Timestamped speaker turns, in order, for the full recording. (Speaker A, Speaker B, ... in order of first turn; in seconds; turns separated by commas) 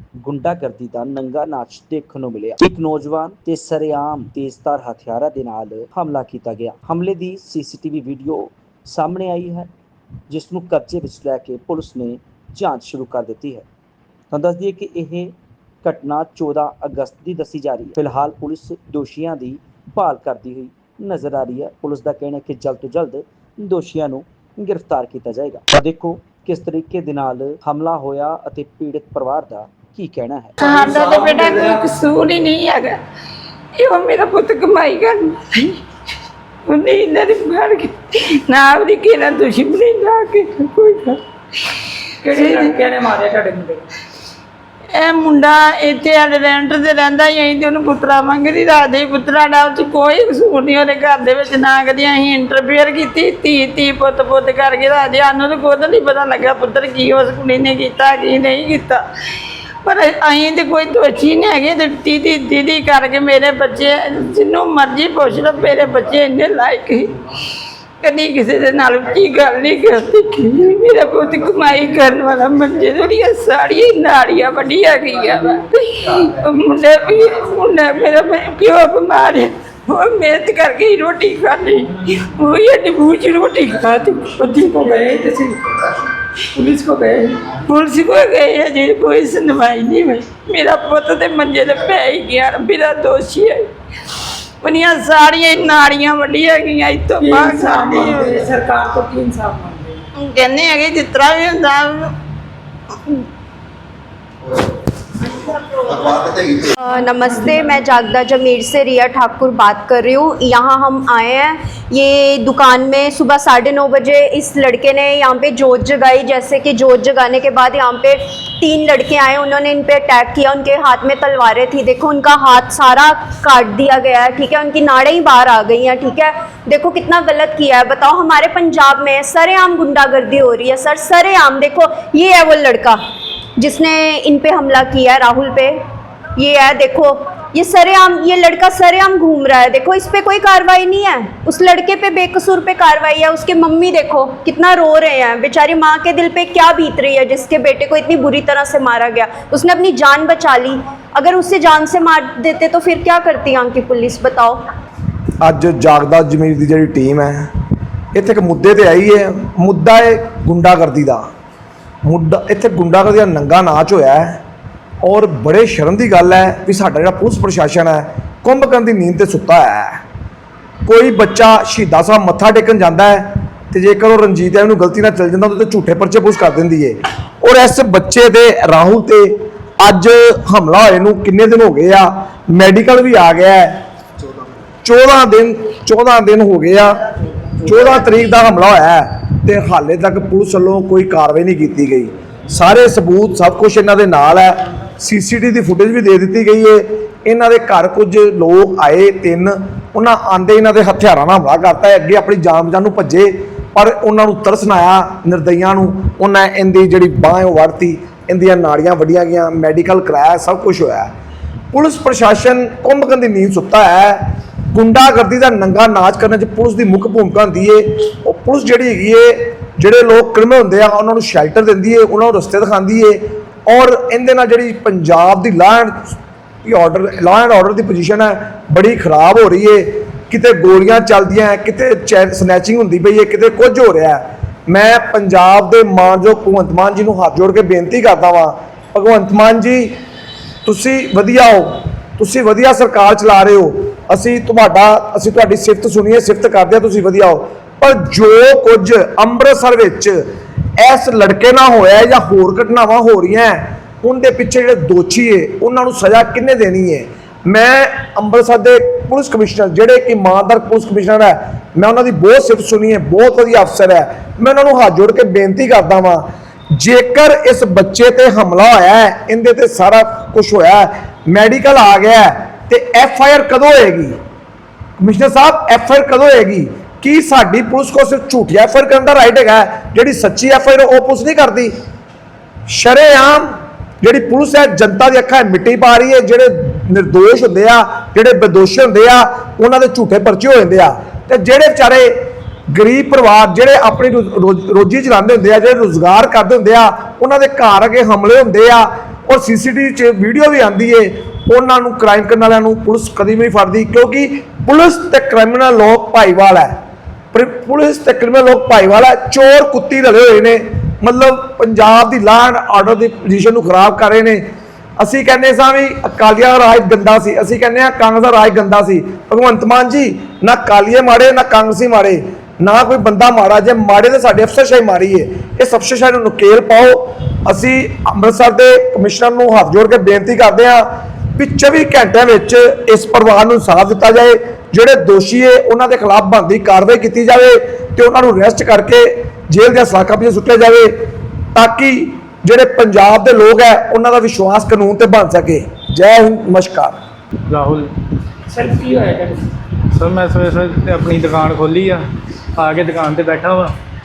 Speaker A: 0.2-9.7, Speaker A: 10.3-13.7, Speaker A: 14.3-30.8, Speaker B: 30.6-32.9, Speaker B: 33.8-35.7, Speaker B: 36.6-37.9, Speaker B: 38.5-41.2, Speaker C: 42.2-43.8, Speaker B: 42.3-42.9, Speaker B: 44.9-59.0, Speaker B: 59.8-67.1, Speaker B: 68.0-85.0, Speaker C: 84.6-85.6, Speaker C: 86.5-87.5, Speaker B: 87.5-93.7, Speaker B: 94.6-98.5, Speaker C: 97.2-100.0, Speaker B: 100.2-102.1, Speaker D: 106.8-133.0, Speaker D: 133.6-135.8, Speaker D: 136.4-154.6, Speaker E: 155.4-157.5, Speaker E: 158.1-161.3, Speaker E: 162.0-164.4, Speaker E: 165.0-170.0, Speaker E: 170.8-183.8, Speaker E: 184.8-187.0, Speaker E: 187.6-211.1, Speaker E: 211.7-239.9, Speaker E: 240.6-250.2, Speaker E: 250.8-274.2, Speaker E: 275.0-281.7, Speaker E: 282.7-306.7, Speaker E: 307.3-314.4, Speaker E: 315.0-347.0, Speaker F: 347.5-347.9, Speaker C: 348.5-349.4, Speaker F: 349.9-352.0, Speaker F: 352.6-353.7